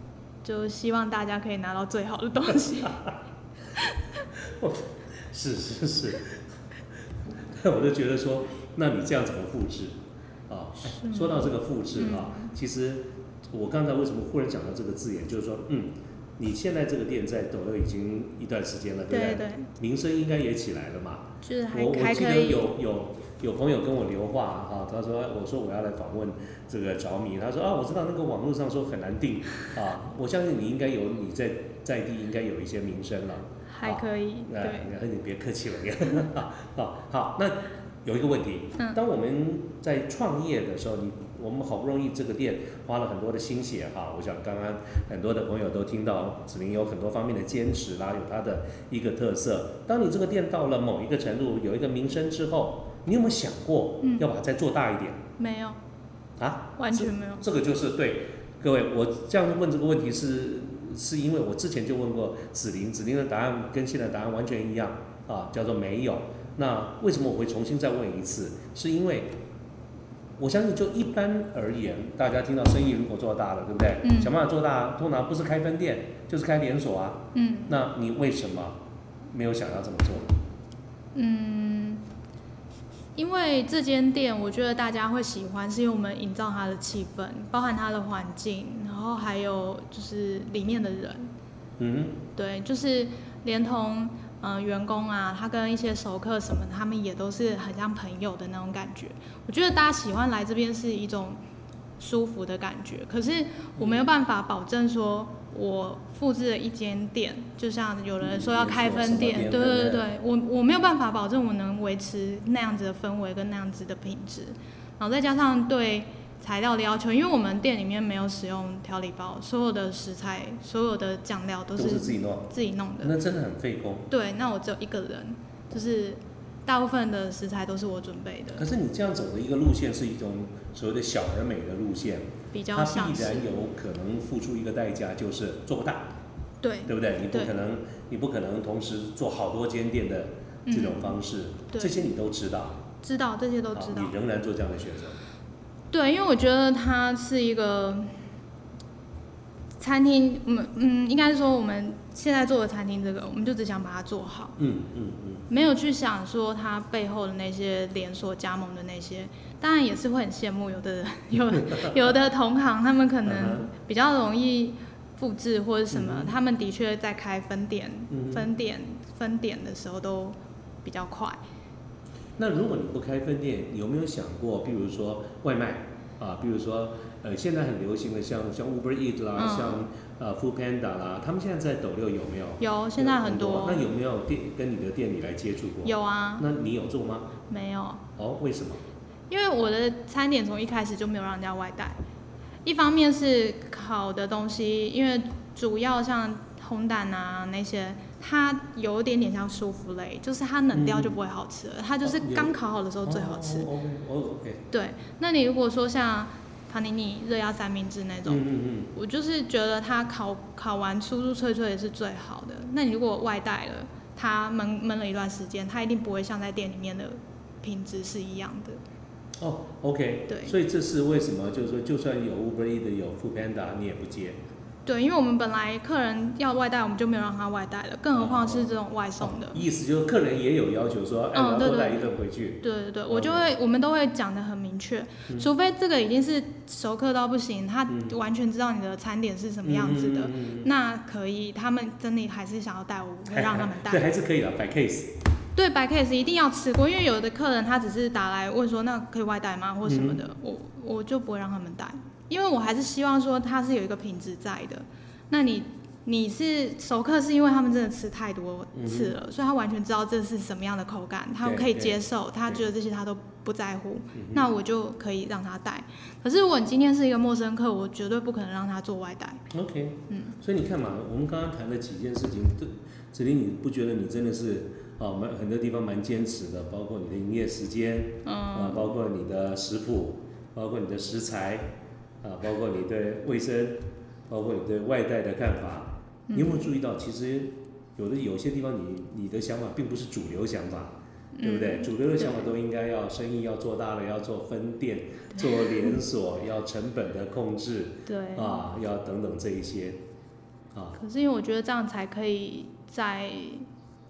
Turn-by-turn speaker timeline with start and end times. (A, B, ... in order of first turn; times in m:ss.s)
0:00.4-0:03.1 A
0:04.4-0:06.4 B
0:07.5-0:10.0 B
0:10.5-0:55.2 B
0:10.8-0:12.5 A
0:19.1-0:19.7 A
0:21.4-0:22.7 A
0:33.7-0:34.9 A
0:54.0-0:54.3 A
0:55.4-0:55.8 A
0:56.4-1:09.3 B
0:56.8-0:57.4 A
1:10.4-1:18.8 B
1:14.0-1:14.3 A
1:17.3-1:17.8 A
1:19.3-1:20.4 B
1:21.1-1:22.0 A
1:23.2-1:31.3 A
1:31.8-1:32.2 B
1:32.4-1:41.4 A
1:42.0-2:03.1 A
1:43.8-1:44.0 B
1:48.2-1:50.0 B
2:01.8-2:04.1 B
2:04.1-2:08.7 A
2:08.6-2:16.1 B
2:12.5-2:13.5 A
2:16.6-2:17.6 A
2:16.9-2:22.8 B
2:20.6-2:21.2 A
2:21.7-2:22.1 A
2:23.0-2:24.1 A
2:23.7-2:25.2 B
2:25.9-2:28.1 A
2:29.8-2:34.6 A
2:34.6-2:35.4 B
2:35.5-2:51.4 A
2:41.7-2:41.9 B
2:43.2-2:43.7 B
2:45.9-2:46.3 B
2:48.1-2:48.5 B
2:52.4-3:07.3 B
2:59.4-2:59.8 A
3:02.6-3:03.9 A
3:05.8-3:06.5 A
3:07.5-3:08.0 A
3:08.2-3:08.8 B
3:09.3-3:12.0 A
3:12.6-3:23.7 A
3:20.7-3:21.2 B
3:22.0-3:22.5 B
3:23.0-3:24.6 B
3:24.7-3:28.4 A
3:28.2-3:28.9 B
3:28.9-3:38.8 A
3:39.4-3:44.4 B
3:40.3-3:40.5 A
3:44.8-3:49.6 A
3:48.1-3:53.5 B
3:51.3-4:04.1 A
3:57.9-3:58.1 B
3:59.6-4:00.7 B
4:03.3-4:05.1 B
4:05.6-4:29.4 A
4:09.8-4:10.2 B
4:18.7-4:19.1 B
4:21.4-4:22.6 B
4:24.1-4:24.4 B
4:29.5-4:41.7 B
4:30.1-4:30.4 A
4:38.2-4:38.9 A
4:42.2-5:00.0 B
4:46.3-4:46.7 A
4:51.3-4:52.5 A
4:55.4-4:55.7 A
4:58.0-4:58.7 A
5:01.0-5:03.6 A